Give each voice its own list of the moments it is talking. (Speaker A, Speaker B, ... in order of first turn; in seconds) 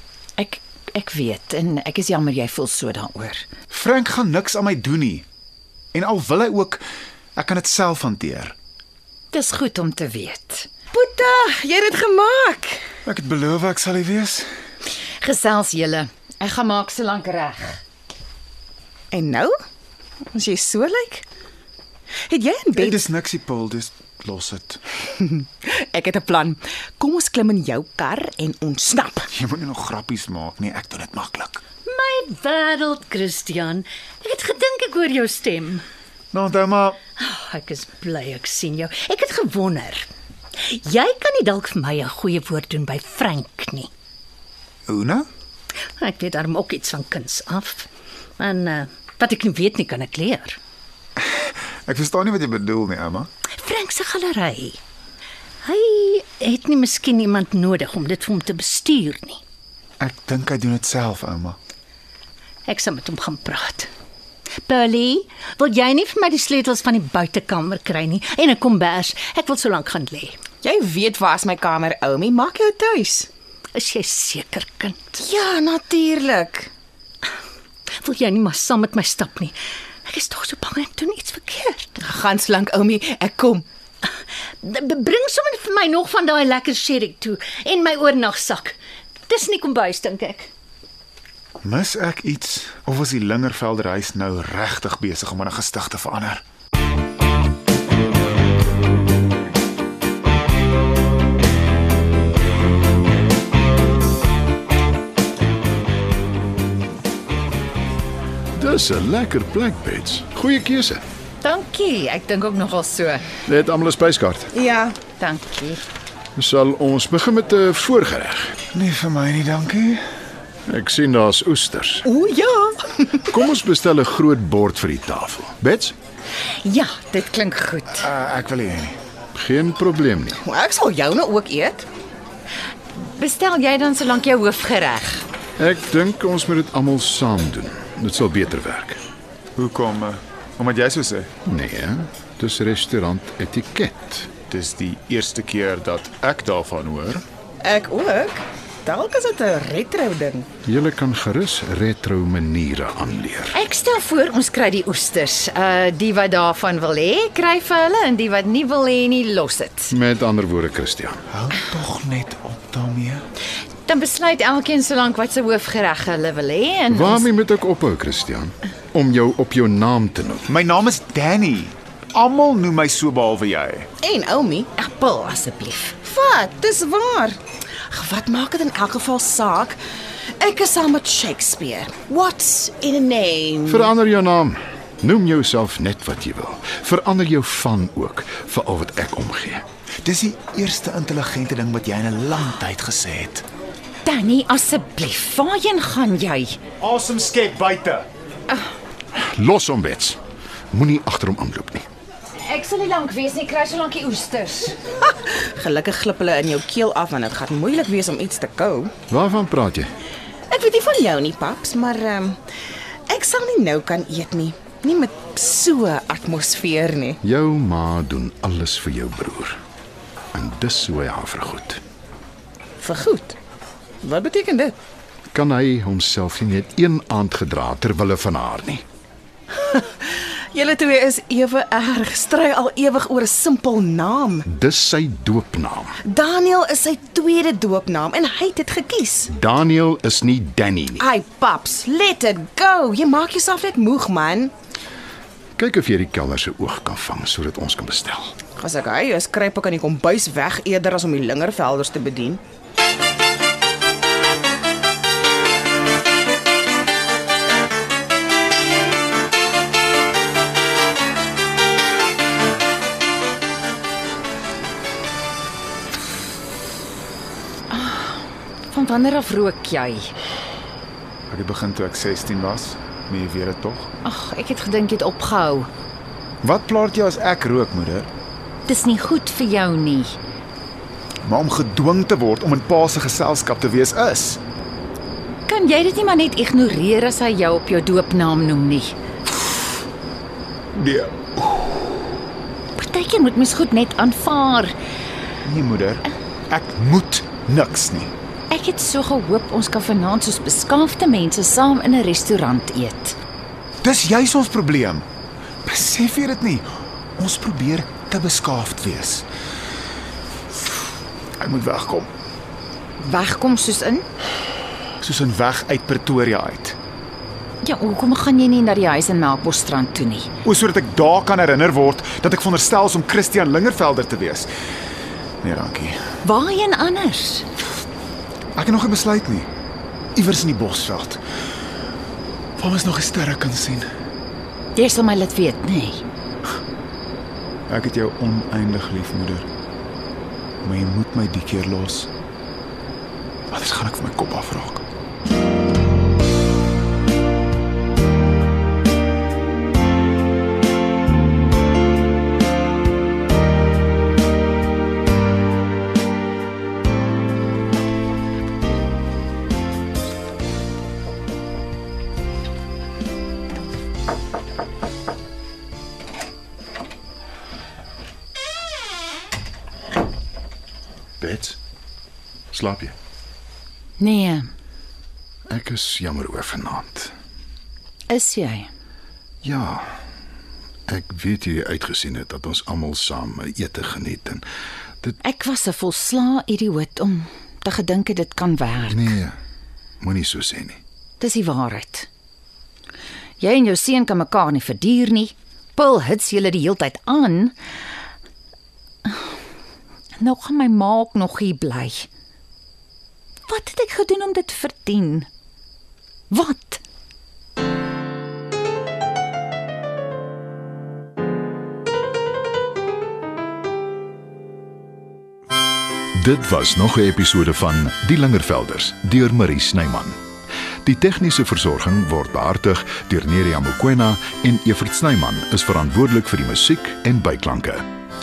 Speaker A: 0.4-3.5, 9.3-10.7, 15.2-17.8, 111.4-113.2, 115.2-115.8, 126.6-128.0, 132.9-135.2, 153.5-159.9, 163.9-167.3, 174.8-175.9, 194.0-196.6, 202.4-204.7, 267.7-270.1, 274.0-275.7, 278.7-280.2, 285.5-288.9, 292.8-294.7, 298.5-303.1, 313.0-314.1, 317.6-320.3, 326.2-327.4, 334.8-336.0, 374.0-374.5, 378.1-378.7, 385.2-389.1, 391.2-392.1, 393.4-397.6, 399.0-399.4, 400.2-402.1, 403.5-405.3, 406.3-406.8
Speaker B: 3.7-5.2, 5.9-6.8, 7.3-8.5, 13.0-14.5, 22.7-24.8, 29.3-31.6, 36.3-37.0, 44.9-45.3, 51.2-53.3, 60.0-61.6, 91.6-96.4, 118.7-120.0, 128.0-128.9, 139.6-141.3, 144.5-147.2, 161.3-163.2, 170.5-173.9, 190.0-193.4, 196.8-198.1, 271.3-273.9, 276.4-278.1, 281.2-284.4, 290.7-291.9, 295.4-298.1, 303.8-305.0, 305.6-309.2, 311.4-312.1, 315.0-316.8, 320.4-324.5, 325.4-326.0, 328.5-329.5, 330.1-331.2, 332.6-333.9, 337.7-339.5, 340.6-342.1, 343.5-344.9
Speaker C: 10.9-12.8, 19.1-19.5, 20.3-21.2, 22.3-23.0, 25.1-29.3, 70.6-73.3, 75.2-76.7, 82.0-83.6, 114.5-115.0, 122.0-123.2, 130.4-131.9, 147.6-150.5, 174.0-174.7, 176.0-177.4, 177.9-179.8, 180.4-183.9, 205.0-208.9, 210.5-212.4, 213.1-217.2, 222.8-223.3, 224.0-224.8, 229.5-234.4, 236.0-239.3, 240.9-244.5, 248.6-252.4
Speaker D: 31.9-35.8, 37.2-40.1, 40.6-43.9, 46.0-47.9, 48.4-50.6, 53.6-54.8, 55.6-59.4, 62.7-63.9, 64.7-70.3, 73.7-75.2, 78.0-79.5, 80.1-81.9, 84.6-88.7, 89.3-90.5
Speaker E: 108.5-111.0, 113.5-114.5, 116.4-118.5, 120.7-122.1, 123.2-125.9, 129.3-130.4, 135.6-139.0, 141.4-144.3, 150.7-153.6, 159.9-161.2, 166.9-170.5, 183.7-189.6, 199.2-200.2, 200.7-201.9, 209.1-209.9, 217.2-219.6, 220.3-221.8, 225.3-228.8, 234.5-235.9, 239.3-241.0, 245.6-248.3, 371.2-371.6, 372.5-372.9, 375.5-377.1, 379.4-379.9, 380.9-384.4, 388.9-389.4, 390.0-390.8, 416.1-420.1, 420.8-427.8